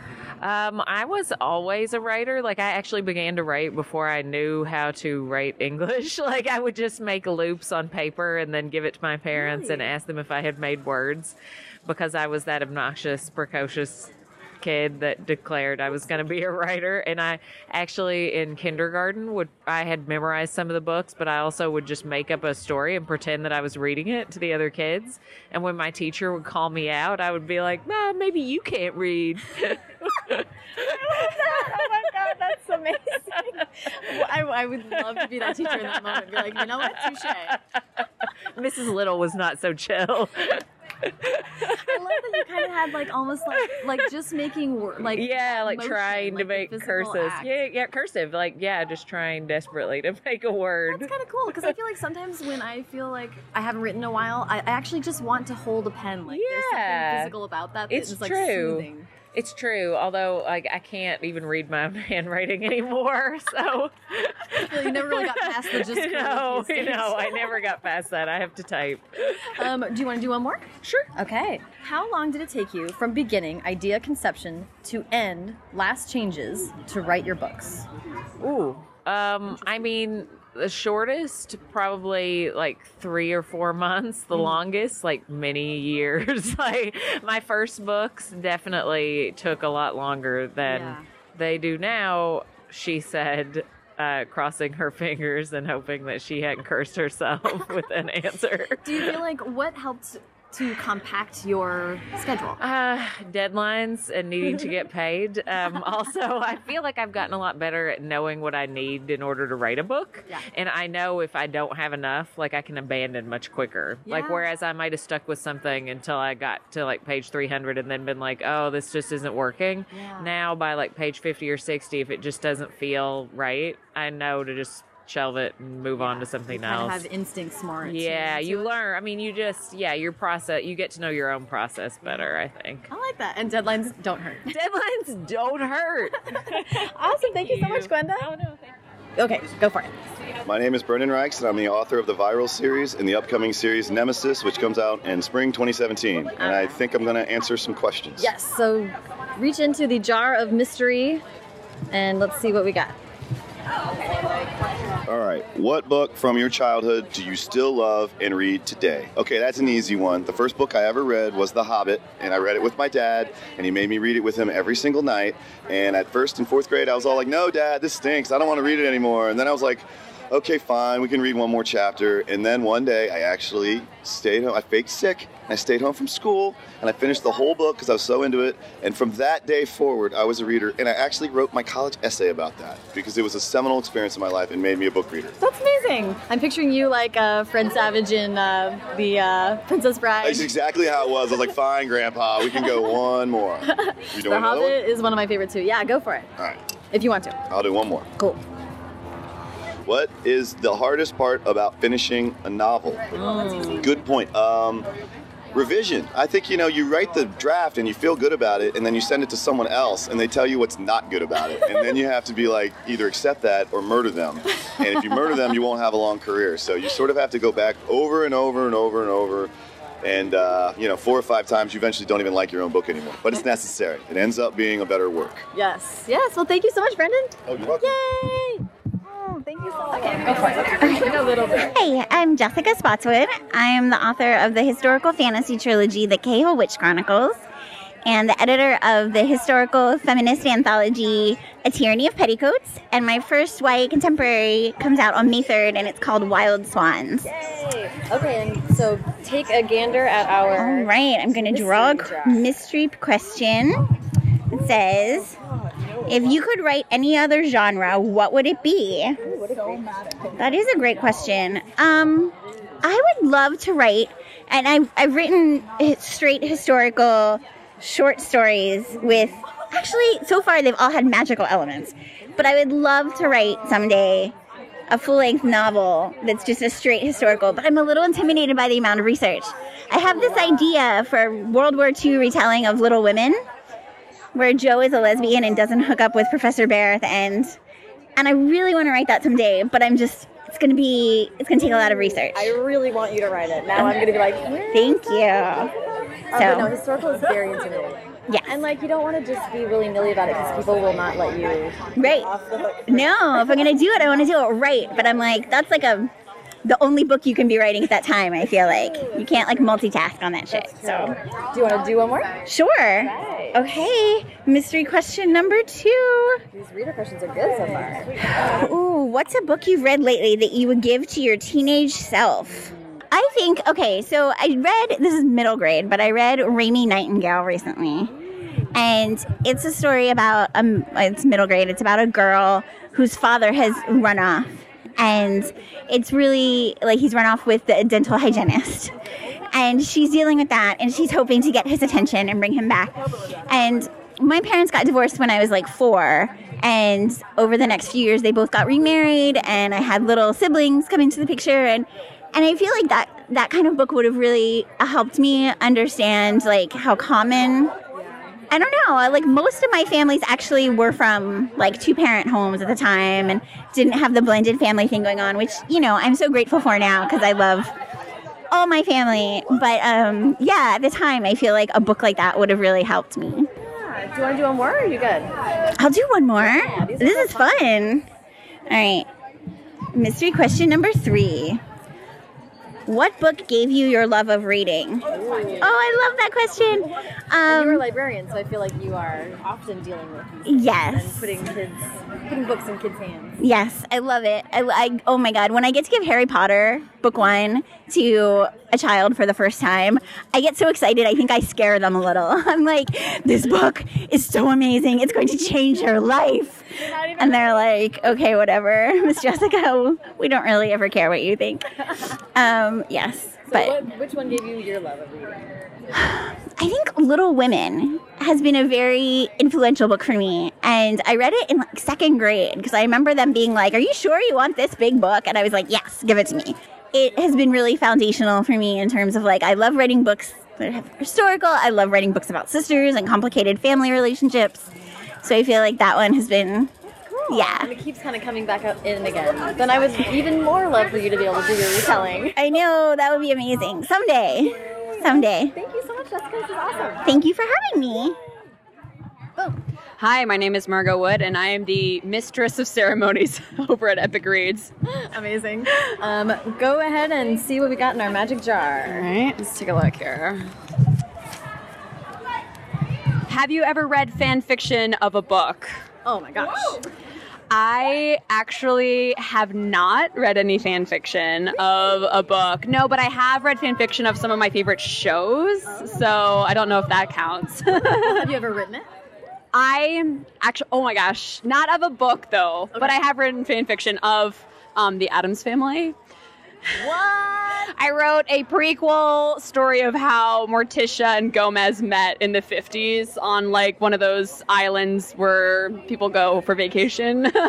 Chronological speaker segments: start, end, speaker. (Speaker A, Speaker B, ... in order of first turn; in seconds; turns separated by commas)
Speaker A: 0.4-30.4, Speaker B: 9.3-9.9, Speaker B: 30.8-37.6, Speaker A: 35.2-37.6, Speaker A: 38.5-40.6, Speaker A: 41.2-41.7, Speaker B: 41.6-47.6, Speaker A: 45.0-51.1, Speaker B: 50.9-59.1, Speaker A: 56.3-57.3, Speaker A: 57.9-69.5, Speaker B: 64.6-67.6, Speaker B: 69.5-77.8, Speaker A: 78.4-99.2, Speaker B: 90.7-91.0, Speaker B: 98.8-102.6, Speaker A: 102.6-127.0, Speaker B: 114.0-114.5, Speaker B: 119.9-120.3, Speaker B: 126.0-128.7, Speaker A: 127.8-132.8, Speaker B: 132.9-134.5, Speaker A: 134.5-136.2, Speaker B: 136.7-138.3, Speaker A: 137.5-137.9, Speaker B: 139.2-139.9, Speaker C: 140.4-148.3, Speaker B: 146.4-146.7, Speaker B: 148.2-151.2, Speaker B: 151.9-152.9, Speaker C: 155.1-185.3, Speaker B: 185.4-190.5, Speaker C: 190.2-194.8, Speaker B: 192.5-192.9, Speaker B: 193.7-196.3, Speaker B: 196.9-197.4, Speaker C: 197.5-198.1, Speaker C: 199.8-203.1, Speaker B: 203.1-203.8, Speaker C: 203.8-204.9, Speaker C: 205.5-219.5, Speaker C: 220.0-225.5, Speaker B: 225.5-231.7, Speaker C: 227.4-227.9, Speaker D: 231.7-237.4, Speaker D: 238.0-247.3, Speaker B: 247.2-250.9, Speaker D: 250.6-253.8, Speaker B: 251.4-252.4, Speaker D: 254.5-255.3, Speaker D: 256.1-259.2, Speaker B: 259.2-260.1, Speaker D: 260.4-274.3, Speaker D: 274.9-283.4, Speaker D: 284.3-287.6, Speaker D: 288.2-292.5, Speaker B: 292.1-294.9, Speaker D: 293.7-294.0, Speaker D: 294.7-295.7, Speaker B: 296.3-303.0, Speaker D: 296.3-296.7, Speaker D: 298.3-298.6, Speaker D: 301.9-302.3, Speaker D: 302.9-306.1, Speaker D: 306.6-311.1, Speaker B: 308.7-309.4, Speaker B: 310.5-312.4, Speaker D: 312.4-316.4, Speaker B: 313.0-313.6, Speaker B: 316.5-318.4, Speaker D: 318.4-328.1, Speaker D: 328.7-338.9, Speaker D: 339.5-357.7, Speaker B: 357.9-358.2, Speaker D: 358.5-367.7, Speaker D: 368.5-373.5, Speaker B: 373.6-375.3, Speaker D: 375.8-378.1, Speaker B: 376.4-377.7, Speaker D: 378.7-379.1, Speaker D: 379.9-381.6, Speaker D: 382.9-385.1, Speaker B: 385.1-385.7, Speaker D: 385.6-387.8, Speaker B: 387.5-393.4, Speaker D: 390.4-391.3, Speaker D: 393.4-411.6, Speaker B: 406.8-407.7, Speaker D: 412.4-413.8, Speaker B: 413.5-415.6, Speaker D: 416.1-434.7, Speaker D: 435.2-436.7, Speaker B: 437.1-442.3, Speaker D: 437.3-437.7, Speaker D: 442.3-445.5, Speaker B: 445.1-447.1, Speaker D: 447.0-448.1, Speaker B: 454.9-460.4, Speaker E: 464.1-465.0, Speaker B: 466.0-466.8, Speaker E: 467.5-475.3, Speaker E: 476.2-477.4, Speaker B: 478.0-478.9, Speaker E: 479.5-482.7, Speaker E: 483.3-485.9, Speaker B: 486.8-487.7, Speaker E: 488.1-488.4, Speaker E: 490.6-495.2, Speaker E: 495.7-496.4